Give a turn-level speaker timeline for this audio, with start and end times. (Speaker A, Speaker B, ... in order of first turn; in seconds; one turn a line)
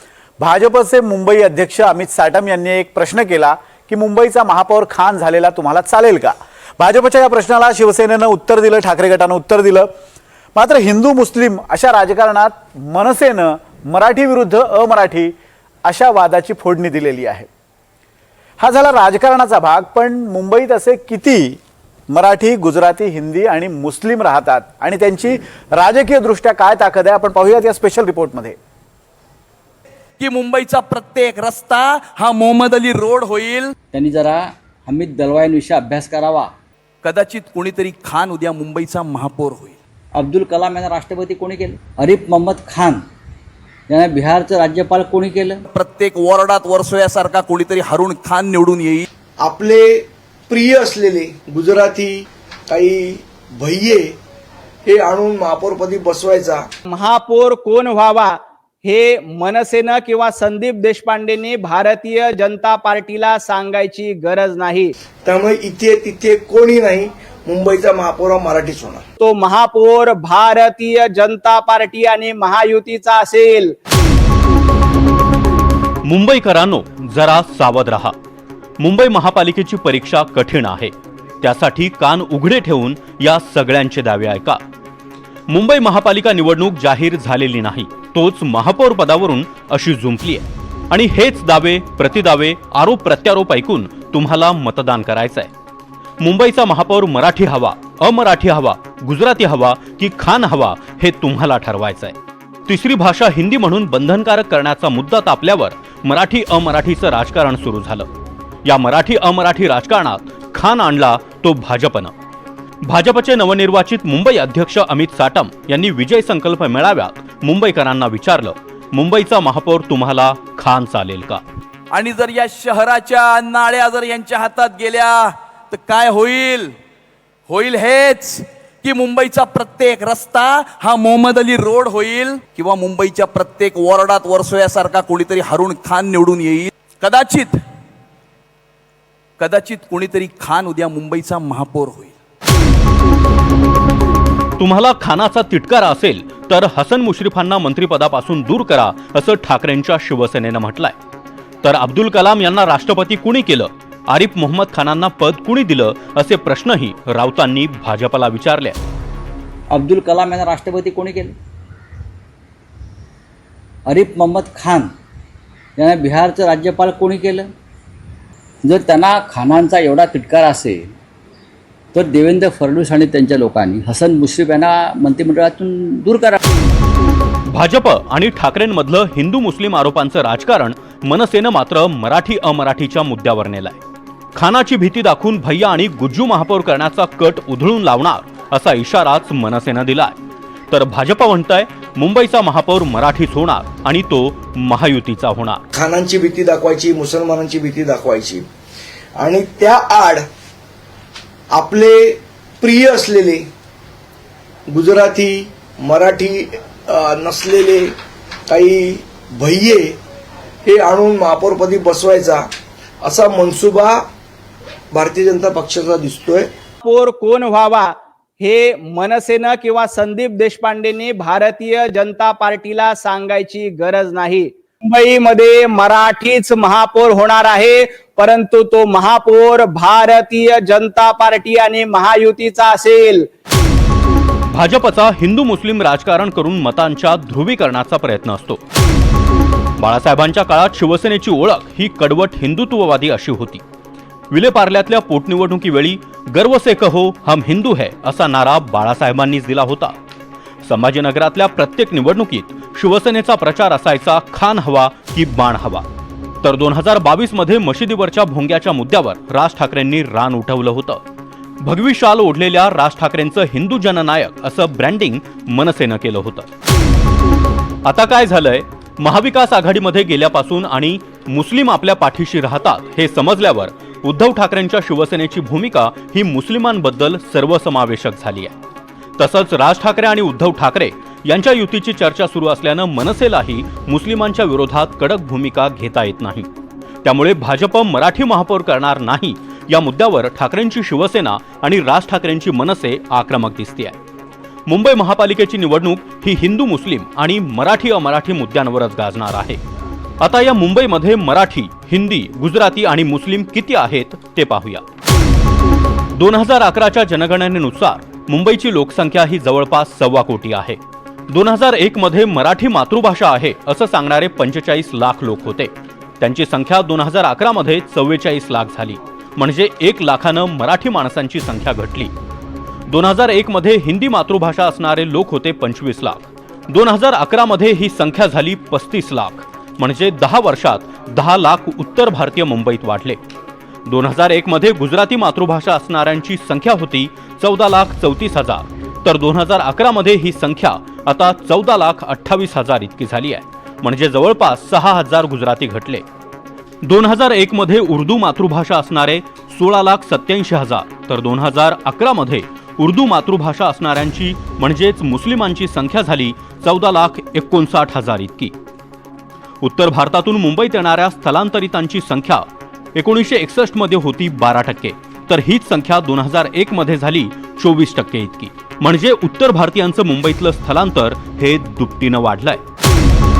Speaker A: 0.4-9.9
Speaker A: 10.6-15.3
Speaker A: 15.8-17.5
Speaker A: 18.6-21.6
Speaker A: 22.1-28.6
Speaker B: 30.2-33.7
Speaker C: 33.9-36.5
Speaker B: 37.0-39.8
Speaker C: 40.1-43.0
Speaker C: 43.9-45.6
Speaker B: 45.7-49.1
Speaker D: 49.4-54.1
Speaker D: 54.9-56.6
Speaker E: 56.9-64.9
Speaker D: 65.2-69.0
Speaker E: 69.2-73.8
Speaker F: 76.0-78.1
Speaker F: 78.8-84.6
Speaker F: 85.5-95.5
Speaker F: 96.2-102.1
Speaker F: 102.7-108.1
Speaker F: 108.6-112.1
Speaker F: 112.8-121.4
Speaker B: 121.9-126.8
Speaker B: 127.5-137.6
Speaker B: 139.4-142.1
Speaker F: 144.6-150.9
Speaker F: 151.6-158.8
Speaker C: 159.7-161.3
Speaker C: 163.9-164.9
Speaker C: 165.8-167.5
Speaker C: 168.6-170.9
Speaker C: 171.9-176.4
Speaker F: 177.5-183.8
Speaker F: 184.3-190.2
Speaker F: 190.7-195.6
Speaker D: 195.7-198.4
Speaker D: 199.2-200.2
Speaker D: 201.5-203.5
Speaker D: 204.7-207.9
Speaker D: 208.5-210.0
Speaker D: 210.7-212.4
Speaker D: 213.0-214.0
Speaker D: 214.9-216.5
Speaker E: 216.8-233.3
Speaker F: 234.5-238.6
Speaker F: 239.8-243.6
Speaker F: 244.3-249.9
Speaker F: 250.7-255.8
Speaker F: 256.4-261.0
Speaker F: 261.6-266.5
Speaker F: 267.8-278.6
Speaker F: 279.2-286.5
Speaker F: 287.0-294.0
Speaker F: 294.7-299.6
Speaker F: 300.2-304.8
Speaker F: 306.1-322.1
Speaker F: 322.9-333.2
Speaker F: 333.9-346.0
Speaker F: 346.8-358.5
Speaker F: 359.6-372.6